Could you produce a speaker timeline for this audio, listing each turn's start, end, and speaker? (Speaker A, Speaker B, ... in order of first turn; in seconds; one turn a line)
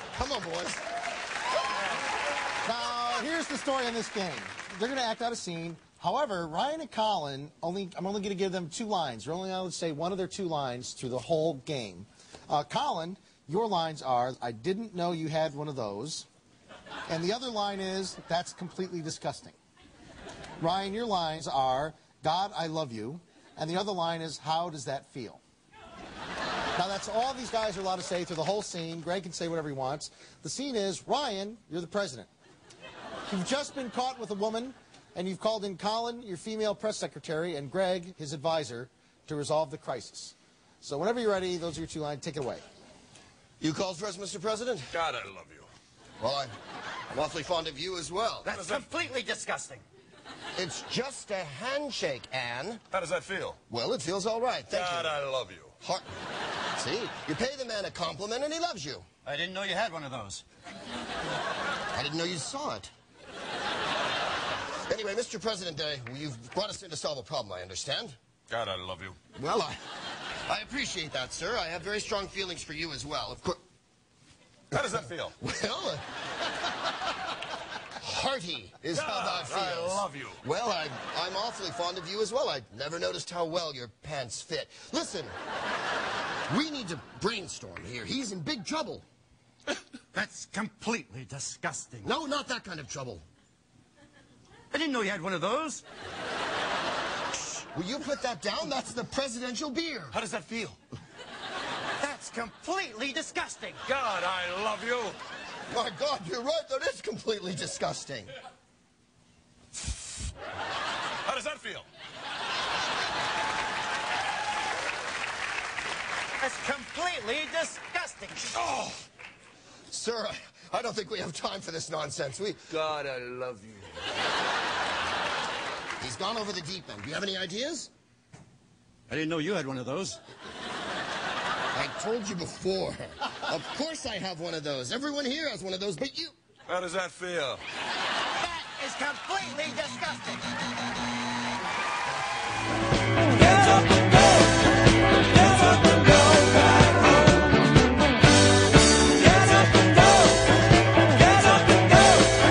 Speaker A: 0.1-0.8
Speaker B: 2.6-16.3
Speaker B: 17.1-19.6
Speaker B: 20.6-25.4
Speaker B: 26.8-32.3
Speaker B: 33.3-42.6
Speaker A: 43.6-45.0
Speaker C: 44.9-45.7
Speaker A: 46.2-46.5
Speaker A: 47.1-48.5
Speaker D: 48.4-49.8
Speaker C: 48.5-48.9
Speaker A: 50.5-52.8
Speaker C: 52.9-53.6
Speaker A: 53.7-55.2
Speaker C: 54.7-55.8
Speaker A: 55.8-56.1
Speaker A: 56.8-59.0
Speaker D: 59.2-60.4
Speaker A: 61.9-62.9
Speaker A: 64.8-68.2
Speaker C: 68.5-69.2
Speaker A: 69.3-69.8
Speaker A: 70.5-73.6
Speaker C: 74.7-75.3
Speaker A: 75.3-76.0
Speaker A: 78.0-85.3
Speaker C: 78.9-80.4
Speaker A: 86.5-89.0
Speaker D: 90.1-92.1
Speaker A: 92.0-93.2
Speaker D: 94.7-95.8
Speaker A: 97.7-100.2
Speaker D: 100.1-100.8
Speaker D: 102.0-103.9
Speaker C: 103.9-105.2
Speaker A: 105.7-108.3
Speaker C: 111.2-111.8
Speaker D: 116.4-118.7
Speaker A: 118.7-119.0
Speaker A: 119.9-122.8
Speaker C: 122.7-123.9
Speaker A: 126.0-127.9
Speaker D: 129.1-130.2
Speaker A: 131.7-136.3
Speaker C: 136.7-137.6
Speaker D: 138.4-140.5
Speaker D: 143.6-144.3
Speaker D: 145.4-147.3
Speaker D: 149.2-150.2
Speaker D: 151.4-152.2